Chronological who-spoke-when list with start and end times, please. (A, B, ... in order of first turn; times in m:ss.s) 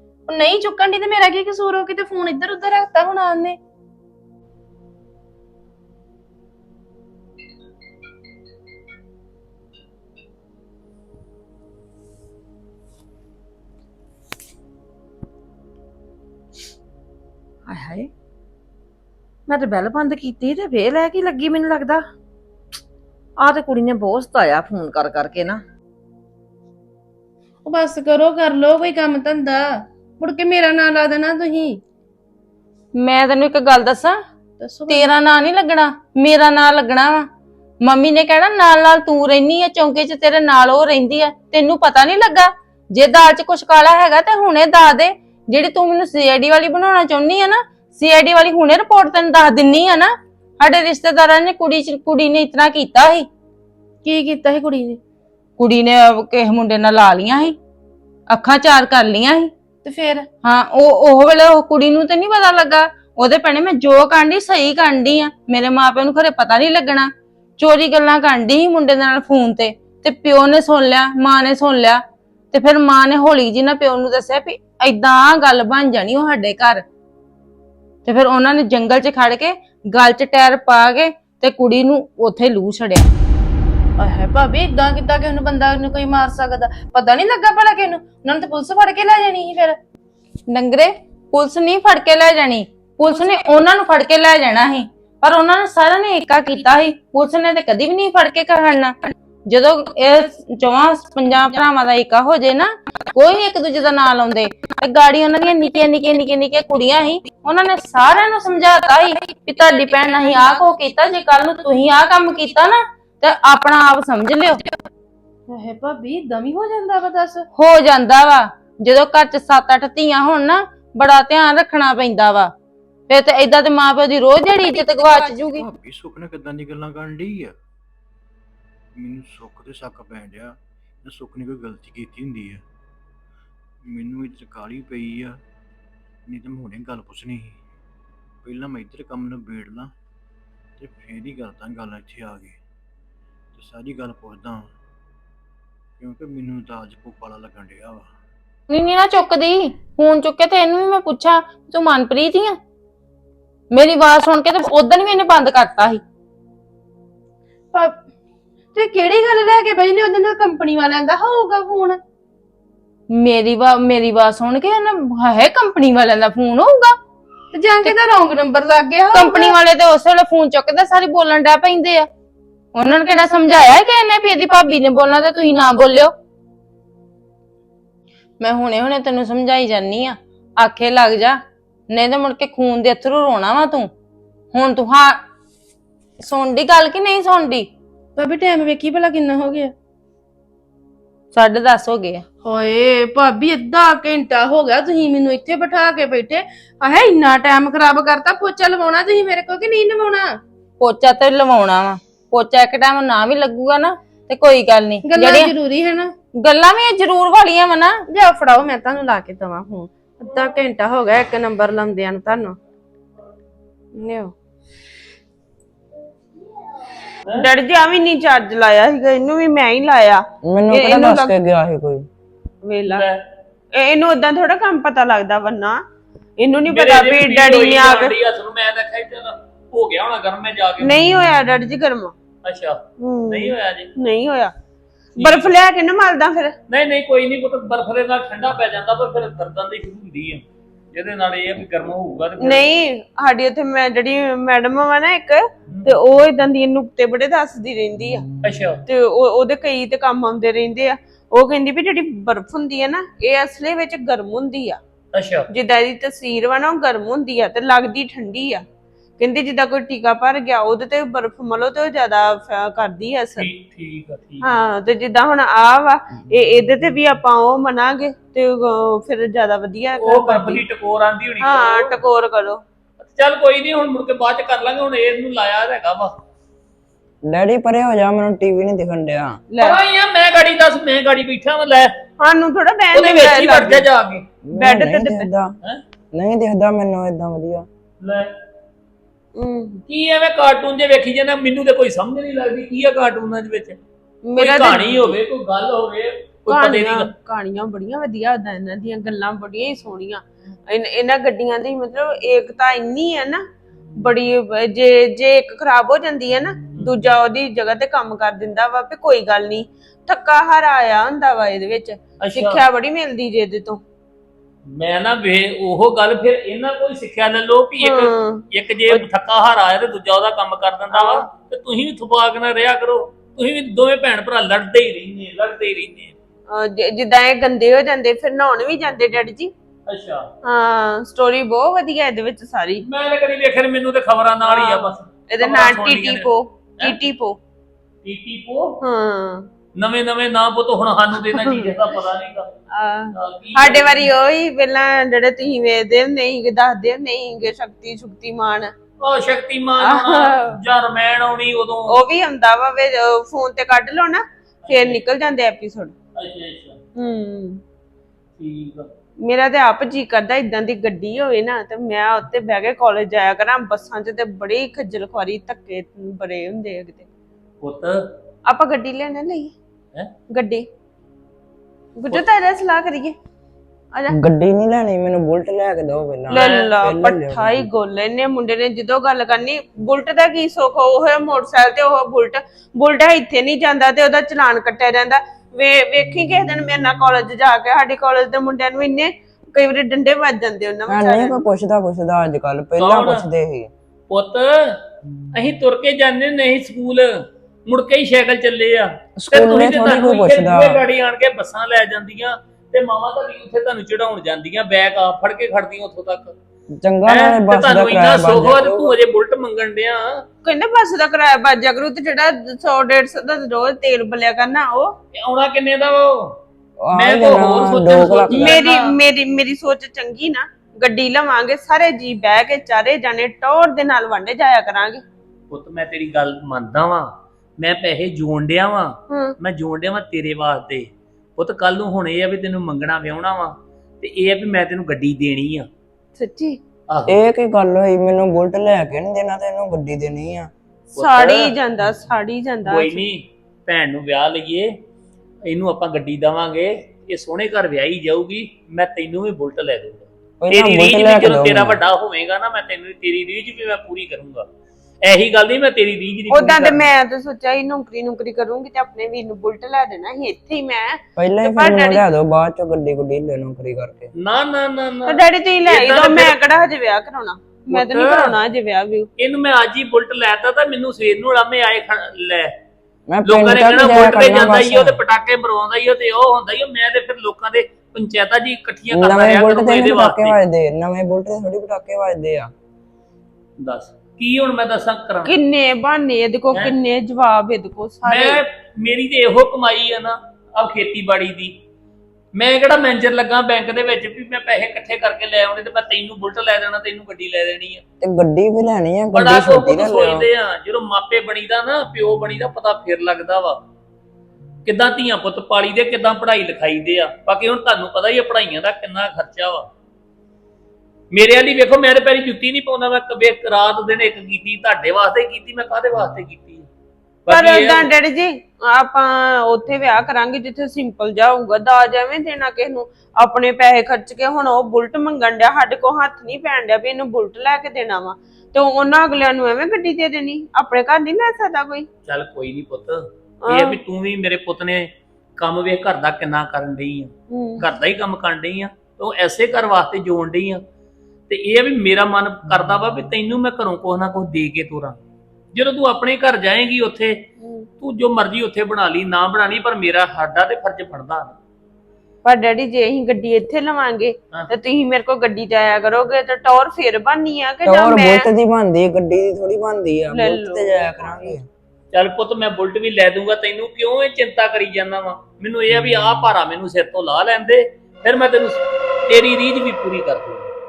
0:00.3-0:03.6 A
0:17.7-0:18.1 B
0:19.5-0:22.0 B
0:23.4-0:25.6 B
0:27.6-0:31.8 A
0:32.9-0:34.2 C
0:34.6-0:35.1 A
0:34.9-0:37.3 C
0:37.8-0:53.3 C
0:54.0-0:55.0 A
0:55.6-0:57.6 C
0:58.3-0:59.5 C
0:59.8-1:00.3 A
1:00.4-1:16.8 C
1:18.1-1:23.1 C
1:24.0-1:29.8 A
1:30.5-1:54.6 C
1:55.5-1:57.4 A
1:57.6-2:02.5 C
2:03.1-2:05.6 C
2:05.5-2:07.6 D
2:08.9-2:12.6 D
2:13.8-2:15.4 D
2:16.2-2:17.6 D
2:18.4-2:19.9 D
2:20.8-2:22.6 D
2:23.5-2:24.7 D
2:26.0-2:28.1 D
2:28.7-2:32.6 C
2:33.7-2:36.0 C
2:37.7-2:38.0 A
2:38.7-2:42.0 A
2:43.1-2:47.0 C
2:47.5-2:49.6 A
2:49.1-2:52.1 C
2:52.7-2:56.1 C
2:58.4-3:01.4 C
3:01.9-3:03.9 C
3:04.5-3:05.2 C
3:06.2-3:07.7 C
3:08.2-3:09.7 A
3:11.3-3:12.2 C
3:12.4-3:20.4 A
3:20.8-3:25.5 C
3:25.0-3:26.1 A
3:26.4-3:28.0 C
3:28.1-3:32.6 A
3:33.9-3:34.3 A
3:37.4-3:41.3 E
3:40.4-3:42.1 F
3:42.6-3:43.0 E
3:42.9-3:43.2 G
3:43.7-3:45.8 E
3:46.4-3:48.1 E
3:46.7-3:51.2 G
3:50.8-3:52.2 E
3:52.4-3:53.9 G
3:53.0-3:54.5 E
3:55.2-3:55.5 G
3:55.2-3:56.6 E
3:56.7-4:02.7 G
4:02.4-4:08.3 E
4:08.4-4:08.8 G
4:08.9-4:14.8 E
4:15.1-4:15.5 G
4:15.5-4:18.6 E
4:19.2-4:23.5 E
4:23.4-4:24.5 G
4:24.4-4:30.6 E
4:30.0-4:32.0 G
4:31.4-4:32.6 E
4:33.0-4:36.2 G
4:37.2-4:39.4 F
4:39.5-4:39.8 E
4:39.6-4:42.0 G
4:42.2-4:43.9 E
4:42.9-4:44.2 G
4:44.5-4:45.6 F
4:44.6-4:45.3 E
4:46.1-4:47.7 F
4:48.0-4:48.3 G
4:49.3-4:49.8 E
4:49.9-4:53.8 G
4:54.2-4:55.2 E
4:54.4-4:57.1 G
4:56.5-5:03.4 E
5:04.0-5:13.8 E
5:12.2-5:12.6 G
5:14.7-5:26.1 G
5:17.8-5:19.0 E
5:20.9-5:21.3 E
5:26.5-5:29.5 E
5:29.9-5:30.3 G
5:30.4-5:32.8 E
5:32.8-5:36.3 G
5:34.5-5:37.4 E
5:38.0-5:38.8 G
5:38.8-5:39.5 E
5:39.8-5:42.5 G
5:41.3-5:41.7 E
5:42.7-5:48.7 E
5:43.2-5:44.1 G
5:49.0-5:52.0 G
5:49.8-5:50.6 E
5:51.9-5:55.9 E
5:54.7-5:55.0 G
5:56.2-5:56.8 G
5:57.0-5:57.6 E
5:58.4-5:58.9 G
5:59.2-6:07.1 E
6:07.6-6:08.1 G
6:08.4-6:09.5 E
6:10.3-6:10.7 E
6:12.0-6:13.2 E
6:14.1-6:17.7 F
6:16.3-6:16.7 G
6:16.3-6:31.4 E
6:30.9-6:33.7 F
6:32.8-6:33.2 G
6:34.1-6:34.8 G
6:35.3-6:37.1 G
6:37.7-6:46.3 G
6:39.2-6:40.8 F
6:46.8-6:49.0 F
6:47.1-6:50.2 G
6:50.4-6:54.9 E
6:55.1-6:56.4 G
6:56.8-6:58.6 F
6:56.9-6:58.9 G
6:58.3-7:05.0 E
7:05.5-7:15.7 G
7:09.1-7:09.4 E
7:16.2-7:16.6 E
7:16.9-7:17.2 G
7:17.1-7:20.5 F
7:20.9-7:23.0 E
7:21.0-7:21.6 G
7:22.6-7:24.7 G
7:25.4-7:34.4 G
7:30.4-7:31.8 F
7:35.0-7:36.9 G
7:36.3-7:42.0 E
7:41.2-7:44.1 F
7:44.2-7:46.4 G
7:45.1-7:49.1 E
7:47.7-7:48.4 G
7:49.2-7:52.5 G
7:53.1-7:55.0 F
7:53.2-8:00.4 G
7:58.9-8:02.5 F
8:03.6-8:05.4 G
8:05.2-8:08.4 E
8:08.0-8:11.5 G
8:12.3-8:17.8 G
8:18.0-8:20.3 F
8:19.1-8:23.6 G
8:24.6-8:29.7 G
8:31.1-8:36.7 G
8:37.3-8:37.9 G
8:37.3-8:51.9 E
8:52.1-9:00.6 G
8:53.4-8:53.8 E
8:57.3-8:57.6 E
9:01.3-9:05.0 G
9:05.5-9:07.2 G
9:07.4-9:07.7 E
9:07.8-9:11.4 G
9:12.2-9:18.3 E
9:17.6-9:21.4 F
9:20.1-9:21.4 E
9:21.9-9:30.5 G